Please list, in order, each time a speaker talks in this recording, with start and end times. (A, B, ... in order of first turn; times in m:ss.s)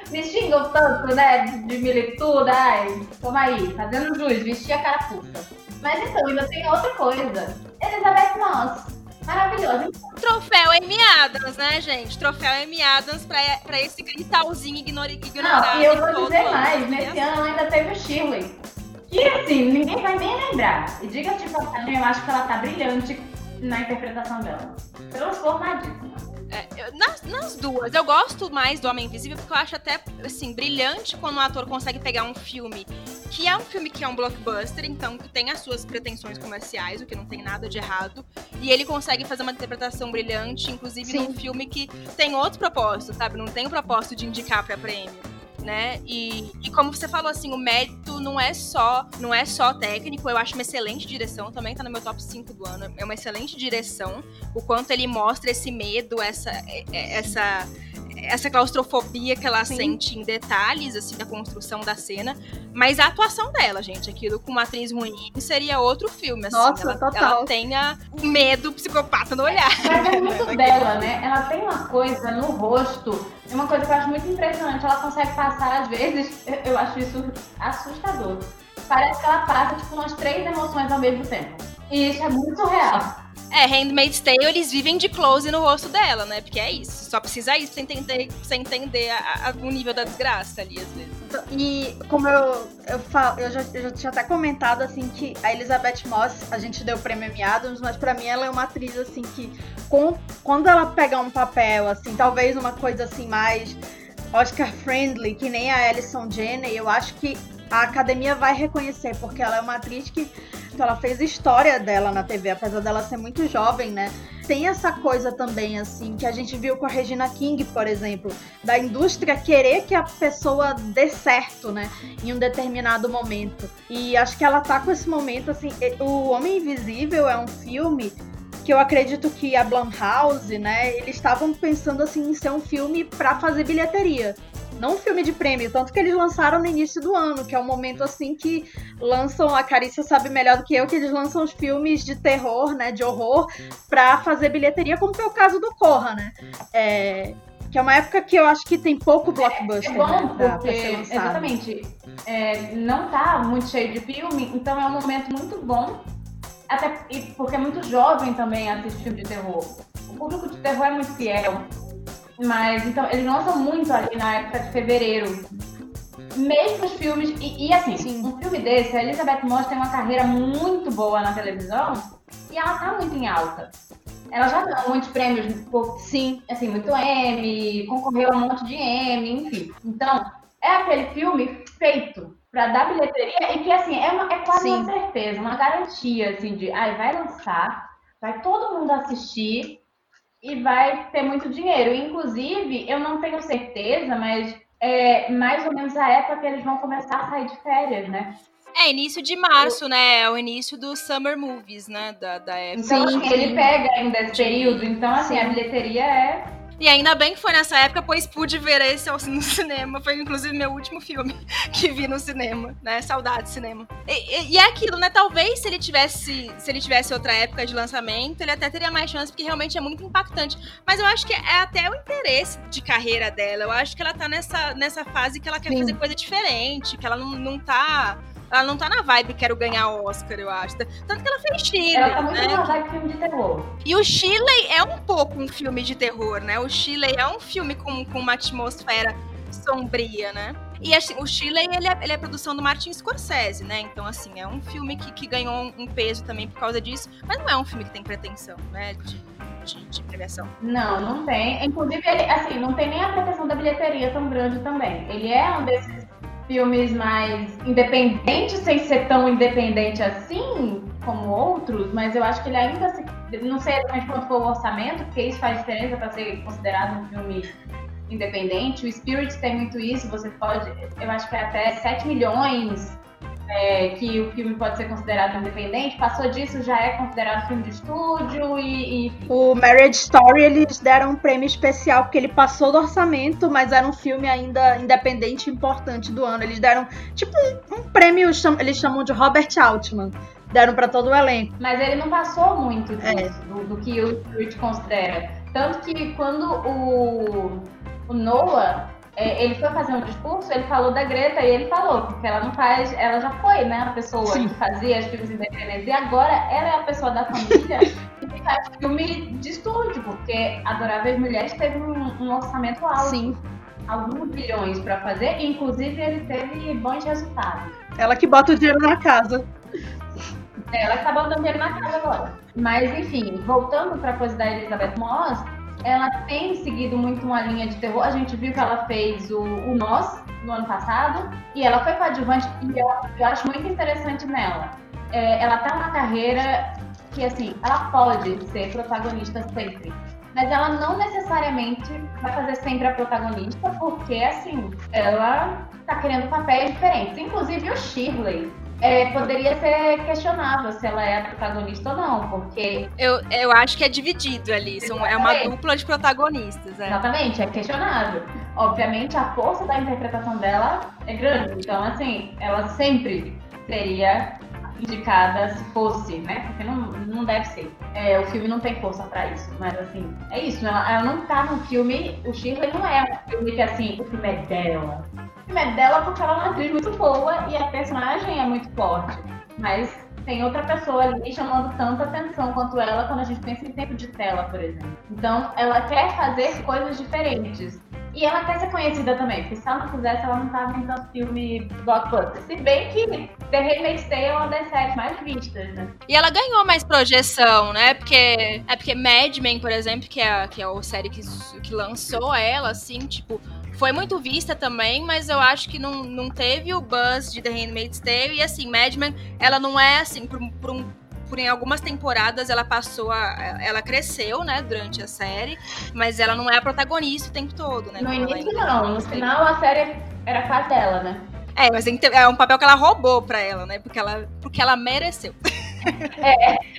0:00.1-0:10.0 A
0:10.2-0:17.2 B
0:15.4-0:26.2 A
0:26.5-1:10.9 B
0:41.0-0:41.4 C
0:59.7-1:00.0 C
1:06.5-1:07.5 C
1:09.5-1:23.2 A
1:22.9-1:31.2 B
1:31.2-1:43.8 C
1:44.3-2:31.5 C
2:29.4-2:36.0 A
2:36.7-2:41.7 A
2:42.4-2:45.5 A
2:46.3-2:53.8 A
2:48.0-2:48.3 C
2:54.3-3:09.8 A
2:56.0-2:56.4 C
3:04.5-3:04.9 C
3:10.4-3:18.4 A
3:18.7-3:23.7 B
3:22.7-3:26.5 A
3:22.9-3:23.7 C
3:24.3-3:24.9 B
3:25.2-3:25.6 C
3:26.8-3:52.8 B
3:45.6-3:46.0 C
3:51.9-3:53.7 A
3:53.8-4:10.5 B
4:10.6-4:27.6 A
4:28.1-4:39.3 A
4:39.3-4:51.5 C
4:51.6-5:17.8 A
4:53.0-4:53.3 C
5:04.2-5:04.5 C
5:13.0-5:13.4 C
5:18.0-5:19.5 C
5:20.7-5:52.9 A
5:53.0-5:57.0 B
5:54.8-5:55.5 A
5:56.9-6:36.0 A
6:36.1-6:59.3 B
6:58.0-7:01.3 A
7:01.6-7:06.2 B
7:06.2-7:06.6 A